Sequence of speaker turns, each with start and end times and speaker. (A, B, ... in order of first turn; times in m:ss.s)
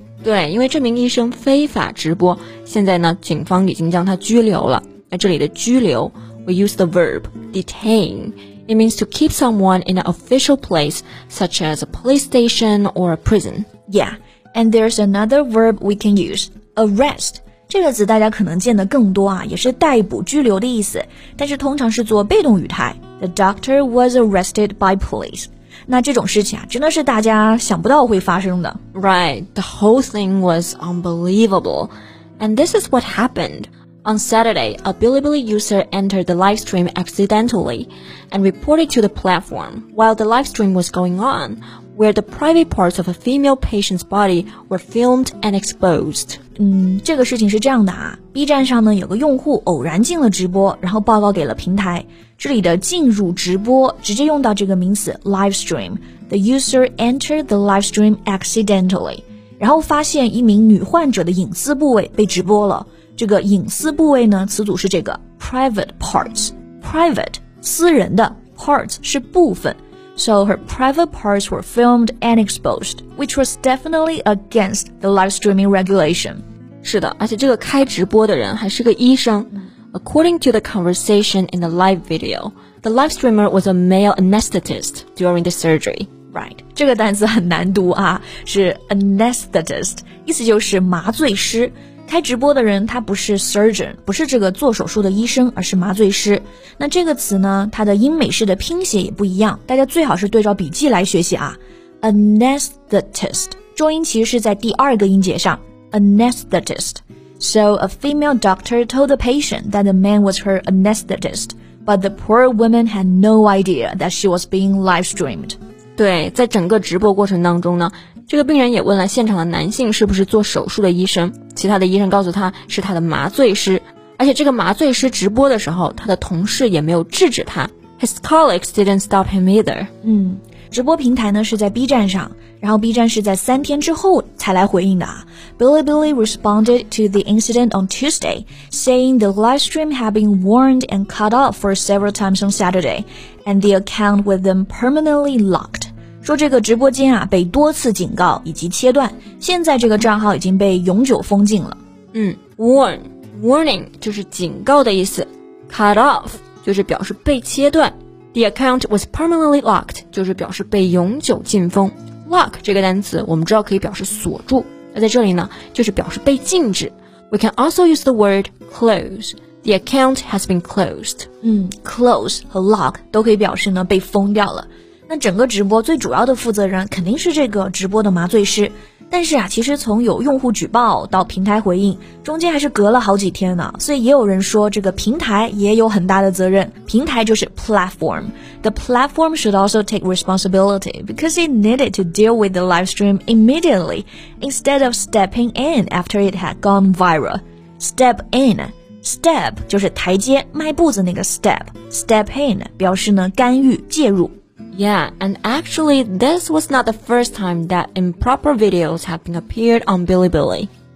0:00.2-0:13.6 A
0:13.9-0:28.8 B
0:28.9-0:46.4 A
0:46.6-1:16.4 B
1:16.8-1:26.1 A
1:26.3-1:55.6 B
1:56.0-2:09.9 A
2:10.0-2:31.8 B
2:32.1-2:51.3 A
2:51.4-3:24.3 B
3:24.7-3:30.7 A